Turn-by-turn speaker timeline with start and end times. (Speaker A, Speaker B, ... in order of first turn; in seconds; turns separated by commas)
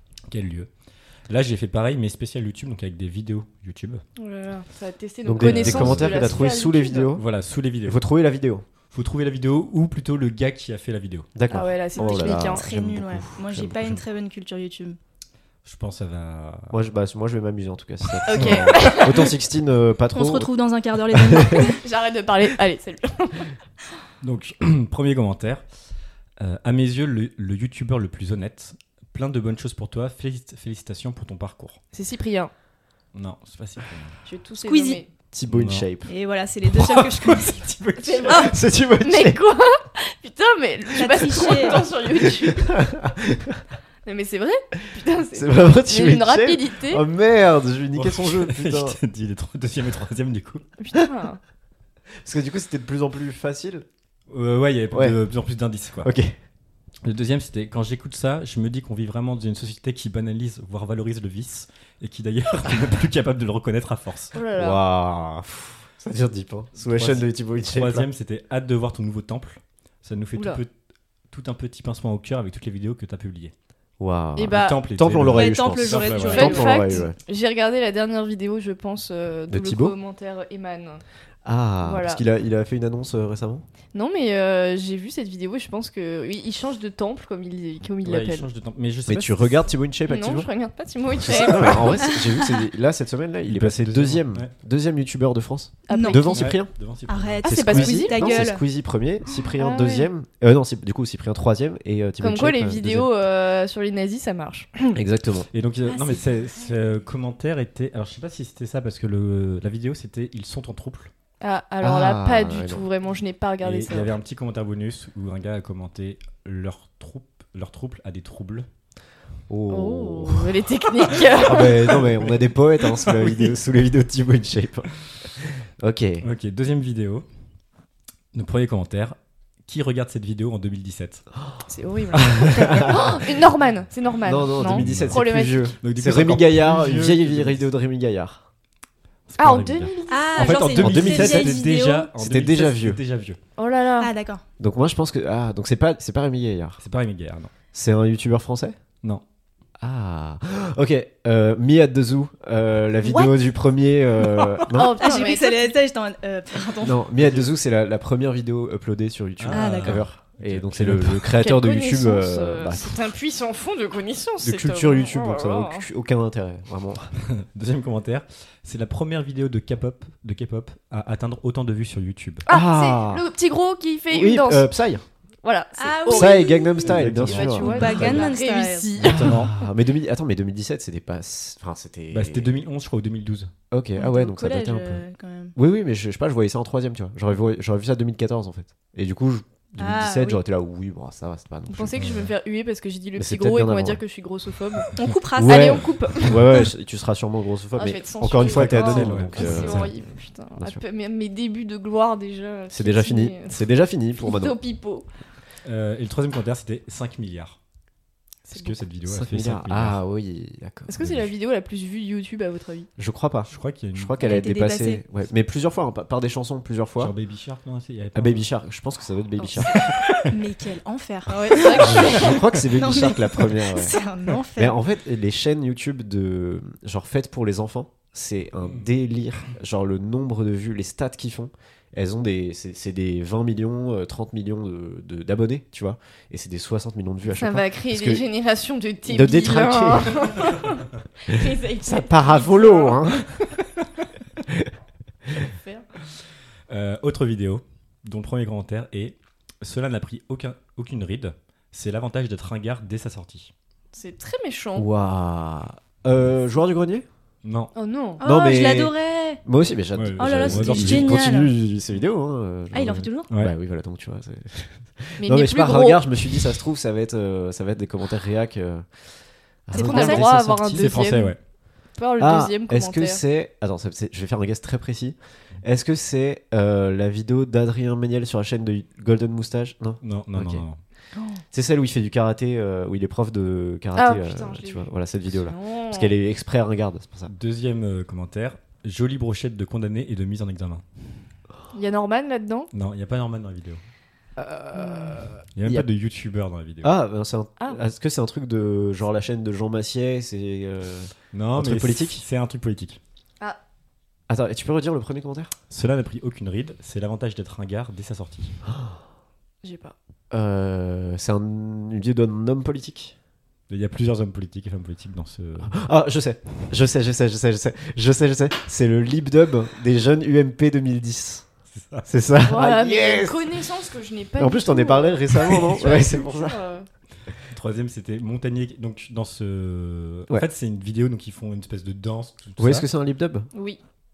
Speaker A: 0.3-0.7, Speaker A: 1.3-4.0, Speaker B: 4.2-7.1, Speaker C: 5.2-7.2, Speaker A: 5.4-6.5, Speaker A: 7.1-8.0, Speaker C: 7.8-8.6, Speaker A: 8.9-11.3, Speaker C: 11.3-14.0, Speaker B: 11.5-12.7, Speaker D: 11.9-15.0, Speaker A: 15.6-16.7, Speaker C: 16.7-20.5, Speaker A: 18.3-19.1, Speaker B: 18.3-19.3, Speaker D: 20.1-21.8, Speaker B: 21.6-23.5, Speaker A: 24.2-25.6, Speaker A: 26.4-31.8, Speaker B: 31.9-32.5, Speaker A: 33.1-34.2, Speaker B: 34.2-35.1, Speaker D: 34.6-35.0, Speaker C: 35.3-36.1, Speaker A: 35.5-35.9, Speaker D: 36.0-37.5, Speaker A: 36.6-38.5, Speaker B: 38.0-42.9, Speaker D: 38.2-38.5, Speaker C: 38.4-39.4, Speaker D: 40.9-41.8, Speaker C: 42.1-43.6, Speaker B: 44.0-47.0, Speaker C: 45.3-49.0, Speaker A: 48.0-50.6, Speaker B: 50.8-51.4, Speaker C: 52.2-53.9, Speaker A: 54.3-56.1, Speaker C: 54.9-55.2, Speaker C: 56.0-56.4, Speaker A: 57.0-64.3, Speaker B: 64.3-64.8, Speaker C: 64.5-68.1, Speaker A: 66.8-70.7, Speaker B: 70.3-70.6, Speaker A: 71.3-73.5, Speaker C: 74.0-77.1, Speaker B: 74.3-74.8, Speaker A: 74.4-76.6, Speaker D: 75.3-77.0, Speaker B: 76.2-81.0, Speaker C: 79.5-80.0, Speaker C: 81.4-83.6, Speaker B: 81.8-82.2, Speaker B: 83.9-88.5, Speaker A: 88.0-89.7, Speaker C: 89.1-90.5, Speaker B: 90.0-92.1, Speaker C: 91.1-96.7, Speaker A: 93.4-94.5, Speaker B: 95.9-96.5, Speaker D: 95.9-96.3, Speaker A: 96.3-97.7, Speaker D: 97.1-98.6, Speaker B: 97.4-98.4, Speaker C: 97.6-103.1, Speaker B: 99.6-100.1, Speaker B: 102.2-105.0, Speaker C: 104.9-105.5, Speaker A: 105.5-111.1, Speaker D: 105.8-106.7, Speaker B: 111.4-114.1, Speaker C: 111.8-112.8, Speaker A: 113.6-118.7, Speaker C: 119.5-120.5, Speaker B: 119.7-122.0, Speaker C: 121.4-126.3, Speaker A: 122.8-123.6, Speaker A: 126.2-127.3, Speaker A: 128.3-131.3, Speaker B: 131.7-135.7, Speaker C: 134.2-138.4, Speaker A: 134.7-135.2, Speaker A: 135.8-137.7, Speaker A: 139.3-143.4, Speaker B: 139.4-140.7, Speaker D: 140.1-142.1, Speaker C: 140.8-143.0, Speaker B: 143.6-144.1, Speaker D: 144.0-144.4, Speaker C: 144.6-146.8, Speaker A: 146.8-147.5, Speaker C: 147.7-148.7, Speaker C: 149.8-155.1, Speaker B: 153.1-153.3, Speaker D: 154.2-157.1, Speaker B: 154.7-155.7, Speaker C: 156.8-163.0, Speaker A: 157.2-157.5, Speaker A: 159.4-161.3, Speaker D: 159.5-160.1, Speaker B: 161.4-165.8, Speaker C: 164.4-167.1, Speaker A: 167.2-172.4, Speaker B: 172.4-174.7, Speaker C: 172.5-173.2, Speaker C: 174.1-175.0, Speaker B: 175.4-176.5, Speaker D: 175.8-178.9, Speaker C: 176.1-178.2, Speaker A: 176.8-178.1, Speaker B: 177.1-179.5, Speaker A: 179.0-179.5, Speaker C: 179.0-182.6, Speaker A: 182.1-183.5, Speaker C: 183.7-191.9, Speaker D: 183.9-185.5, Speaker D: 189.8-190.4, Speaker B: 191.7-196.3, Speaker A: 192.0-192.3, Speaker C: 193.1-194.0, Speaker D: 194.9-195.6, Speaker C: 195.3-199.9, Speaker B: 197.7-205.1, Speaker A: 198.3-199.9, Speaker C: 202.7-204.6, Speaker A: 205.6-207.6, Speaker A: 208.4-210.0, Speaker B: 208.5-208.8, Speaker C: 209.0-210.9, Speaker B: 210.9-212.9, Speaker A: 211.0-211.3, Speaker C: 213.0-217.1, Speaker A: 213.5-214.3, Speaker D: 214.2-215.0, Speaker A: 217.0-218.5, Speaker C: 218.1-219.9, Speaker B: 219.4-219.9, Speaker A: 219.7-220.2, Speaker D: 220.3-224.8, Speaker B: 221.3-222.3, Speaker C: 221.8-224.0, Speaker C: 224.5-238.2, Speaker A: 228.6-228.8, Speaker B: 237.3-243.3, Speaker C: 239.1-240.3, Speaker C: 241.8-243.5, Speaker B: 245.4-245.9, Speaker A: 246.7-253.5, Speaker B: 253.9-254.9, Speaker C: 254.7-257.0, Speaker A: 257.4-257.7, Speaker B: 257.7-258.2, Speaker D: 258.2-259.4, Speaker C: 258.2-268.9, Speaker A: 259.9-261.2, Speaker D: 260.2-261.5, Speaker D: 262.7-263.3, Speaker B: 265.2-266.3, Speaker C: 269.6-271.0, Speaker D: 269.7-270.2, Speaker B: 269.8-271.4, Speaker A: 270.7-271.4, Speaker B: 272.0-273.2, Speaker C: 272.2-280.6, Speaker A: 280.0-280.8, Speaker B: 281.1-281.4, Speaker C: 281.5-287.3, Speaker B: 283.9-284.9, Speaker B: 285.4-286.1, Speaker A: 287.3-290.8, Speaker B: 291.7-292.7, Speaker A: 292.7-293.8, Speaker C: 294.4-295.8, Speaker B: 294.7-295.3, Speaker A: 295.5-296.9, Speaker C: 296.8-302.2, Speaker A: 301.3-303.0, Speaker C: 304.3-305.5, Speaker A: 305.7-308.6, Speaker B: 309.6-309.9, Speaker C: 310.3-313.1, Speaker A: 313.7-315.8, Speaker C: 315.7-321.4, Speaker A: 321.7-322.1, Speaker C: 322.0-323.5, Speaker B: 322.4-326.9, Speaker C: 324.4-326.6, Speaker A: 327.5-332.9, Speaker C: 332.6-333.5, Speaker B: 333.5-333.8